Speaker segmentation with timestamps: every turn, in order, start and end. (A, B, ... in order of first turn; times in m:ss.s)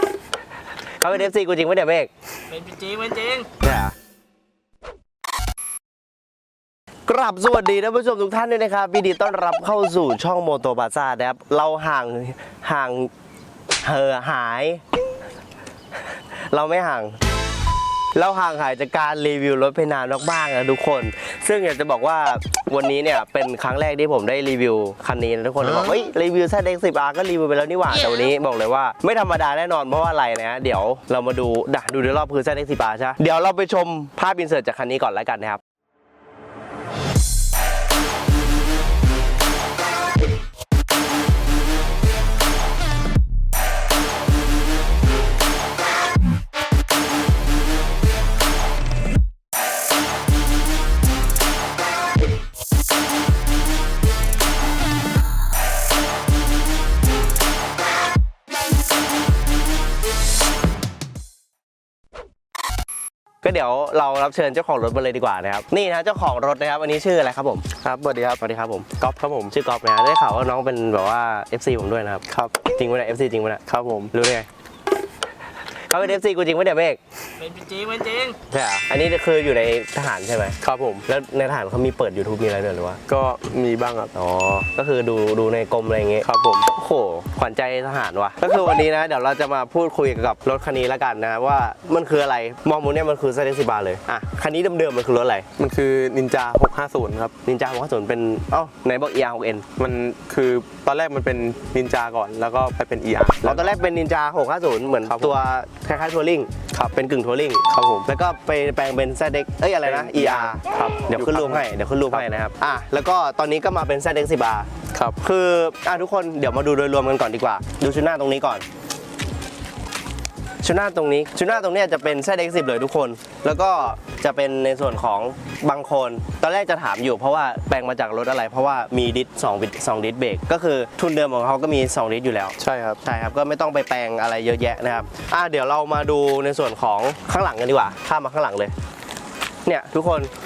0:01.0-0:02.1 A
0:02.5-0:03.4 B
0:03.4-0:04.0 A
0:07.1-0:13.1 A
0:13.8-0:14.8 A
0:16.1-0:17.2 A
0:18.2-0:35.6 A
1:03.4-1:07.7 A
1:07.8-1:08.4 C
1:08.4-1:08.9 A
1:09.0-1:09.5 C
1:09.5-1:12.2 A
1:12.3-1:12.6 C
1:12.8-1:14.5 A
1:13.7-1:14.1 C
1:15.9-1:17.0 A
1:17.4-1:18.4 B
1:18.4-1:23.0 A
1:20.6-1:21.0 C
1:23.1-1:24.1 C
1:24.1-1:35.5 A
1:26.2-1:26.7 C
1:35.6-1:37.3 C
1:37.4-1:39.7 A
1:39.8-1:43.8 C
1:43.4-1:54.7 A
1:45.0-1:45.3 C
1:47.7-1:48.1 C
1:49.8-1:52.3 C
1:54.9-1:55.2 C
1:55.2-1:58.6 A
2:00.6-2:18.7 A
2:12.6-2:13.0 C
2:19.6-2:20.3 A